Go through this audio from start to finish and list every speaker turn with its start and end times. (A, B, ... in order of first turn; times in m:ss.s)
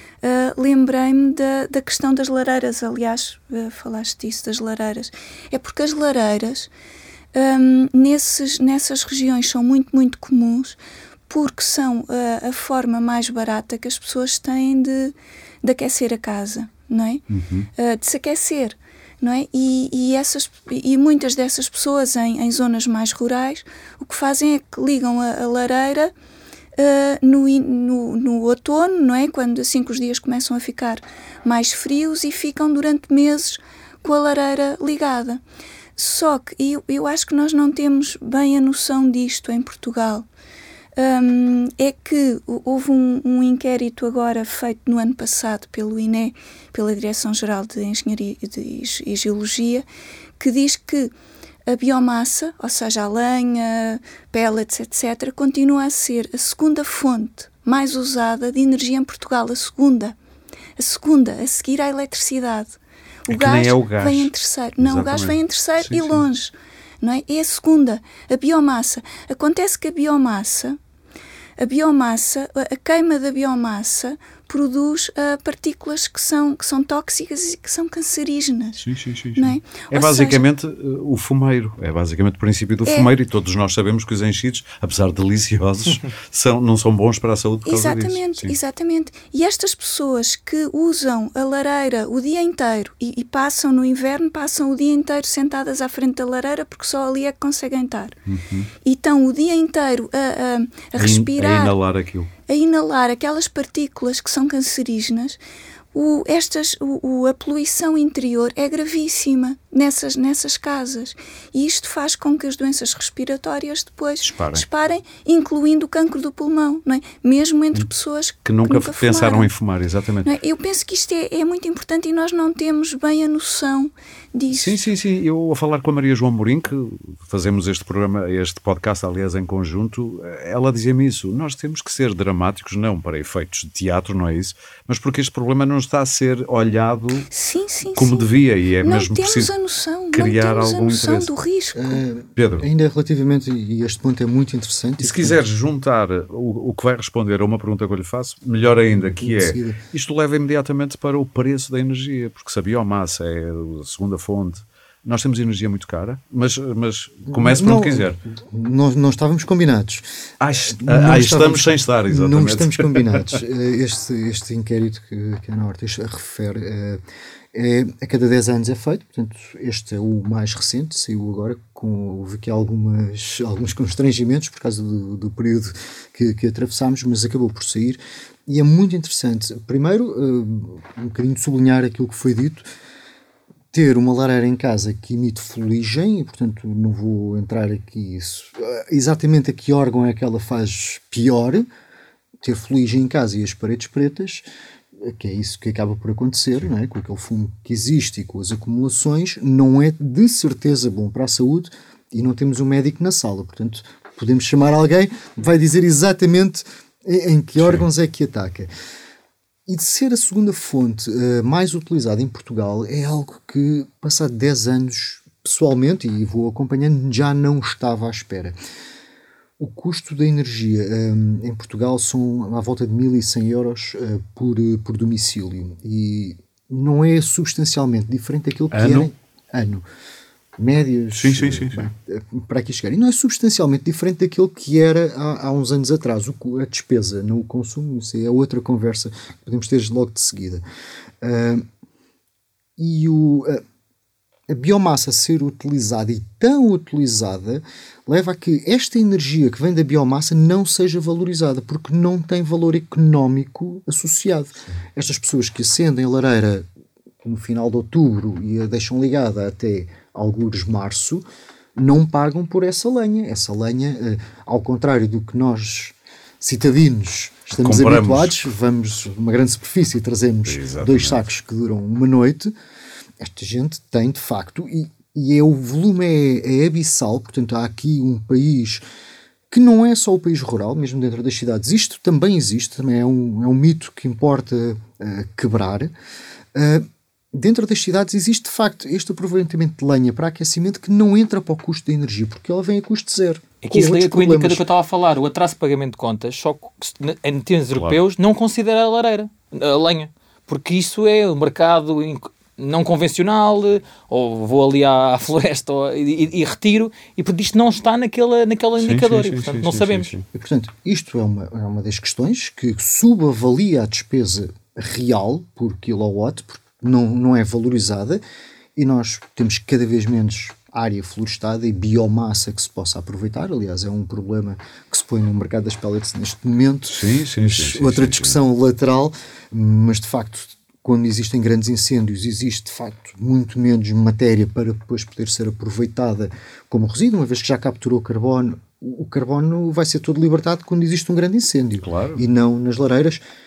0:00.2-0:06.7 A
0:07.3-0:10.8 A
0:11.3-0:17.2 A
0:17.3-0:17.7 B
0:17.8-0:26.1 A
0:26.8-0:35.4 A
0:36.0-0:40.3 A
0:41.0-0:49.9 A
0:50.4-0:51.1 A
0:51.7-1:00.2 A
1:00.8-1:10.8 A
1:03.3-1:06.2 B
1:11.6-1:18.8 A
1:18.8-1:28.6 B
1:19.4-1:20.4 A
1:22.9-1:23.1 A
1:27.7-1:38.2 A
1:38.3-1:38.7 B
1:38.8-1:41.8 A
1:41.0-1:42.3 B
1:42.5-1:45.4 A
1:45.9-1:59.5 A
1:54.2-1:54.6 B
1:58.5-2:00.3 B
2:00.2-2:04.8 A
2:04.5-2:17.3 B
2:17.3-2:18.3 A
2:18.0-2:19.5 B
2:18.8-2:22.0 A
2:20.1-2:21.3 B
2:21.8-2:25.4 C
2:22.4-2:22.7 B
2:25.0-2:38.2 B
2:29.2-2:29.8 C
2:37.3-2:40.0 C
2:40.4-2:43.4 B
2:40.7-2:47.0 C
2:47.5-3:02.6 C
3:03.7-3:11.7 C
3:12.4-3:14.5 C
3:15.0-3:28.7 C
3:27.6-3:27.9 B
3:29.7-3:38.6 C
3:39.6-3:49.8 C
3:48.7-3:49.1 B
3:50.6-4:00.6 C
3:51.1-3:51.9 B
4:01.2-4:01.6 C
4:02.8-4:03.6 C
4:04.5-4:16.7 C
4:17.2-4:21.2 C
4:21.8-4:32.5 C
4:27.6-4:28.4 B
4:30.5-4:31.2 B
4:33.2-4:38.8 C
4:39.5-4:45.9 C
4:46.5-4:54.7 C
4:53.6-5:10.1 D
4:57.7-4:58.0 B
5:08.8-5:10.2 B
5:10.3-5:18.2 C
5:18.8-5:43.2 C
5:26.9-5:28.4 B
5:41.8-5:42.2 B